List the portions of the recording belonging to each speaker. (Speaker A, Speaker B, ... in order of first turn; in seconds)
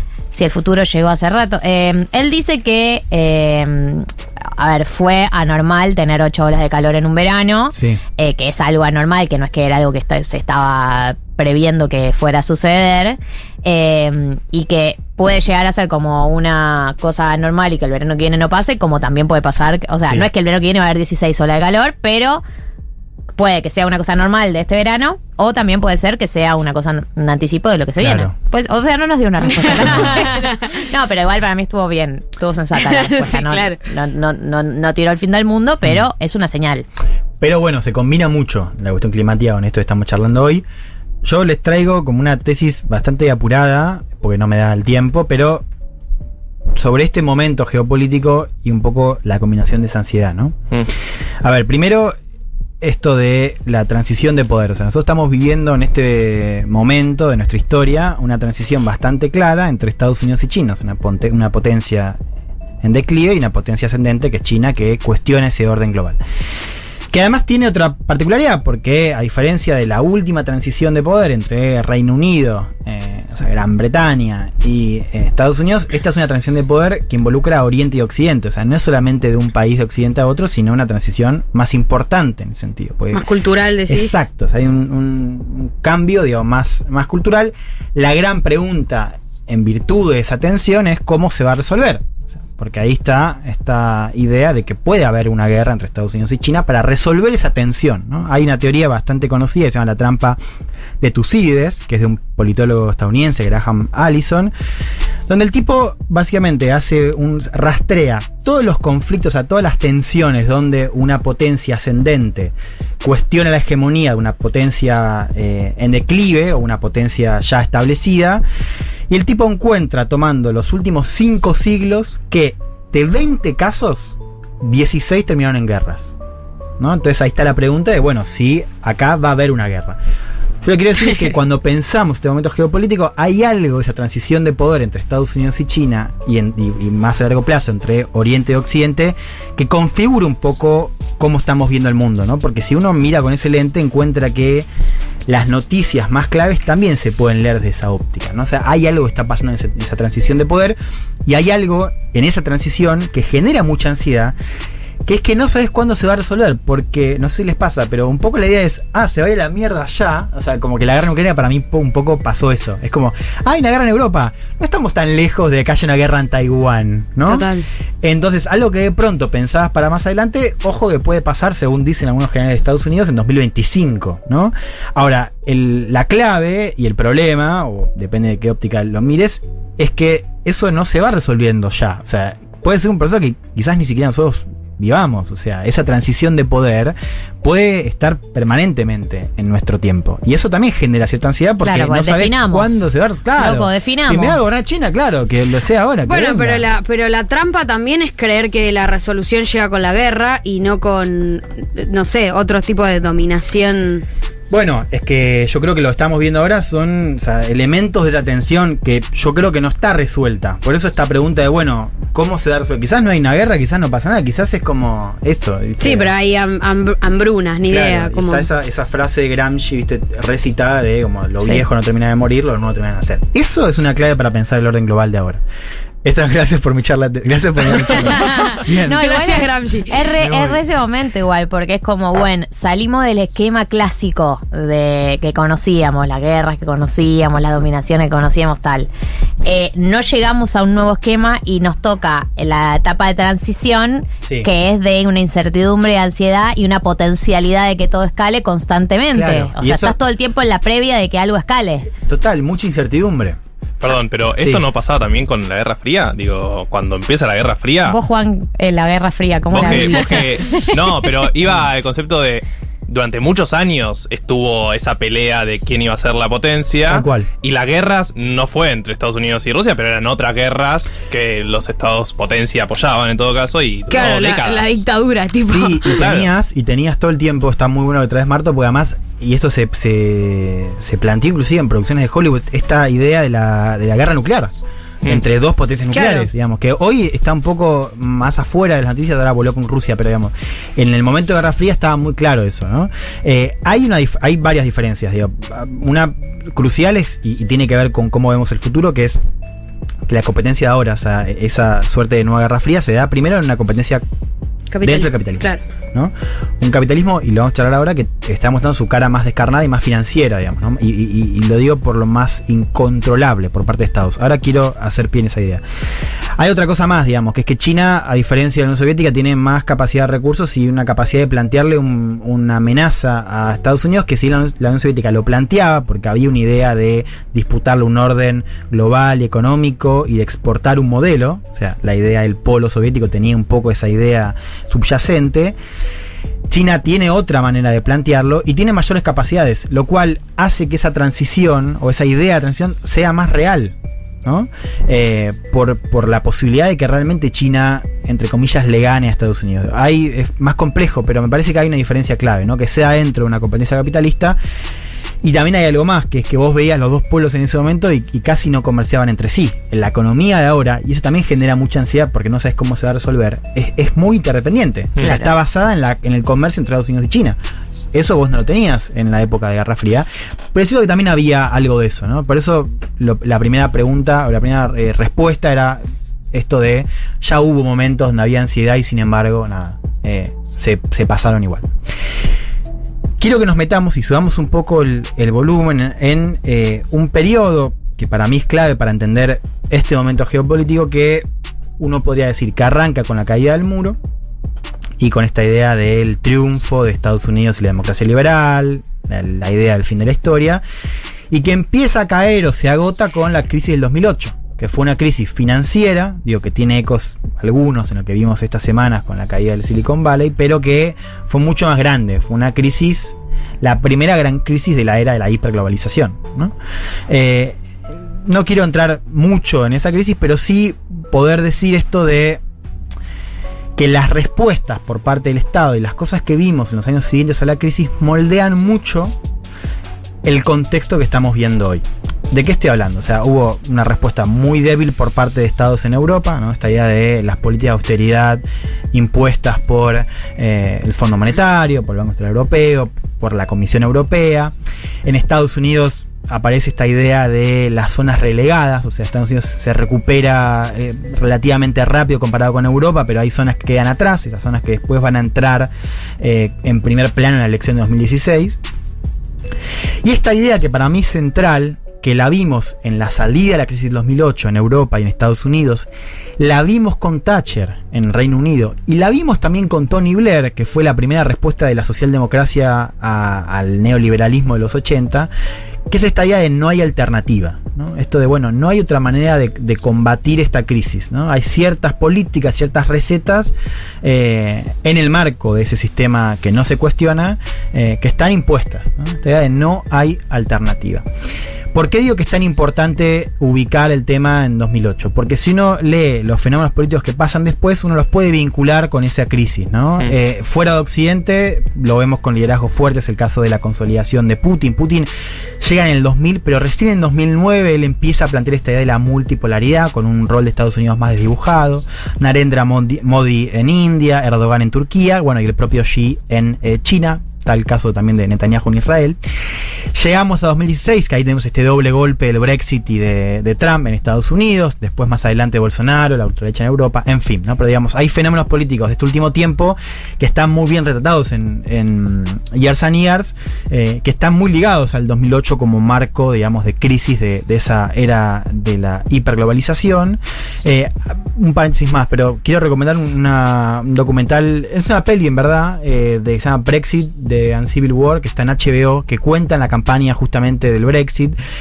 Speaker A: 0.3-22.4, 23.4-36.9, 191.6-194.4, 228.7-238.9, 239.4-251.9, 257.9-260.8, 365.0-365.3
Speaker B: 7.7-8.0, 28.0-28.3, 29.8-30.2, 37.4-40.6, 41.2-45.6, 46.8-50.6, 51.4-52.1, 52.8-62.2, 62.8-66.2, 67.1-83.3, 83.9-100.4, 101.0-104.5, 105.2-118.4, 119.1-126.2, 126.8-130.0, 130.6-144.7, 145.2-154.3, 155.0-167.5, 168.0-196.7, 204.5-216.1, 217.6-225.4, 226.0-229.0, 230.2-230.6, 244.2-244.5, 249.1-250.0, 252.1-253.4, 254.4-254.6, 266.9-267.3, 275.4-284.5, 285.0-299.2, 300.1-304.0, 304.8-315.6, 316.4-335.6, 336.5-354.4, 355.2-367.4, 367.9-381.7, 383.2-391.2, 391.8-394.0, 395.0-400.6, 401.3-416.5, 417.1-422.4, 423.8-429.2, 430.2-444.5, 445.1-458.6, 460.0-475.3, 475.9-491.1, 491.7-505.1, 505.6-519.2, 519.9-551.4
Speaker C: 29.5-30.6, 32.8-33.8, 83.1-84.2, 167.2-167.7, 196.0-204.0, 215.8-218.5, 227.7-230.1, 259.7-260.2, 273.9-276.0, 285.9-286.3, 304.7-305.6
Speaker D: 253.8-258.0, 259.5-274.8, 276.0-276.3